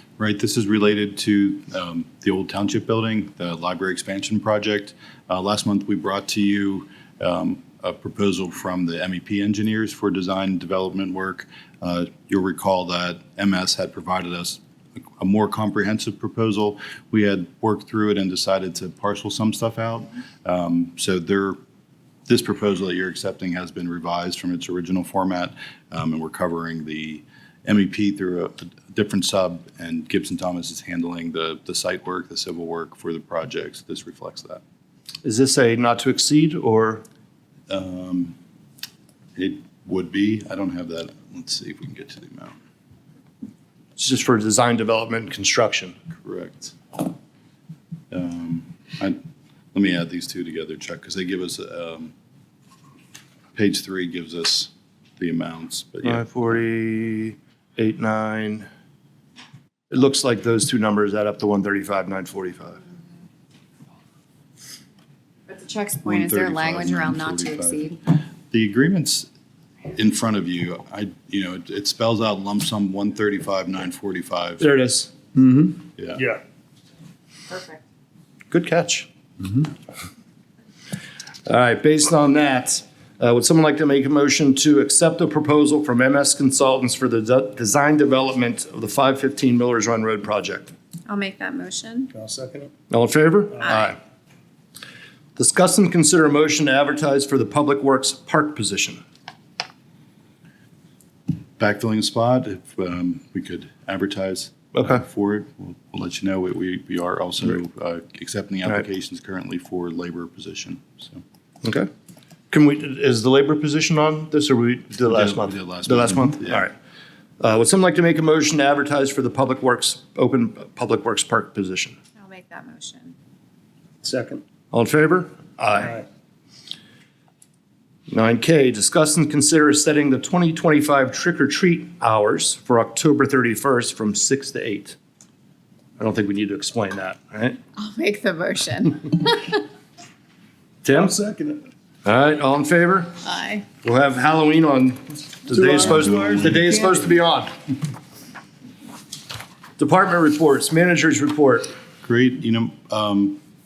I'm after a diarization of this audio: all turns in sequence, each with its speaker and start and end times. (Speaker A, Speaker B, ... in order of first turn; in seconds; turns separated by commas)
Speaker A: 0.2-14.6, Speaker A: 15.2-21.6, Speaker A: 22.3-34.6, Speaker B: 35.2-37.0, Speaker A: 37.7-38.4, Speaker A: 39.4-42.5, Speaker B: 44.0-45.9, Speaker A: 46.2-47.0, Speaker A: 48.1-49.2, Speaker A: 49.7-52.1, Speaker A: 53.5-56.3, Speaker B: 56.0-58.7, Speaker B: 59.9-62.8, Speaker C: 65.5-68.0, Speaker A: 66.0-67.9, Speaker A: 68.5-69.3, Speaker A: 69.9-74.7, Speaker B: 74.6-75.6, Speaker A: 76.0-76.2, Speaker D: 76.1-76.4, Speaker C: 77.5-77.8, Speaker B: 78.5-79.1, Speaker B: 81.5-90.7, Speaker C: 91.1-92.1, Speaker D: 92.1-92.7, Speaker B: 92.9-94.0, Speaker C: 93.6-94.0, Speaker B: 95.3-99.0, Speaker A: 101.6-111.2, Speaker B: 104.7-105.0, Speaker B: 111.6-111.9, Speaker B: 112.5-116.7, Speaker A: 115.0-116.7, Speaker B: 117.4-122.0, Speaker C: 122.2-123.1, Speaker D: 124.0-124.4, Speaker B: 124.7-126.0, Speaker B: 128.1-135.0, Speaker B: 136.0-137.6, Speaker C: 137.8-139.6, Speaker B: 140.8-141.1, Speaker D: 140.9-141.6, Speaker B: 142.0-143.1, Speaker C: 143.2-143.7, Speaker B: 143.8-147.5, Speaker D: 145.5-147.0, Speaker B: 149.8-151.7, Speaker A: 152.0-153.4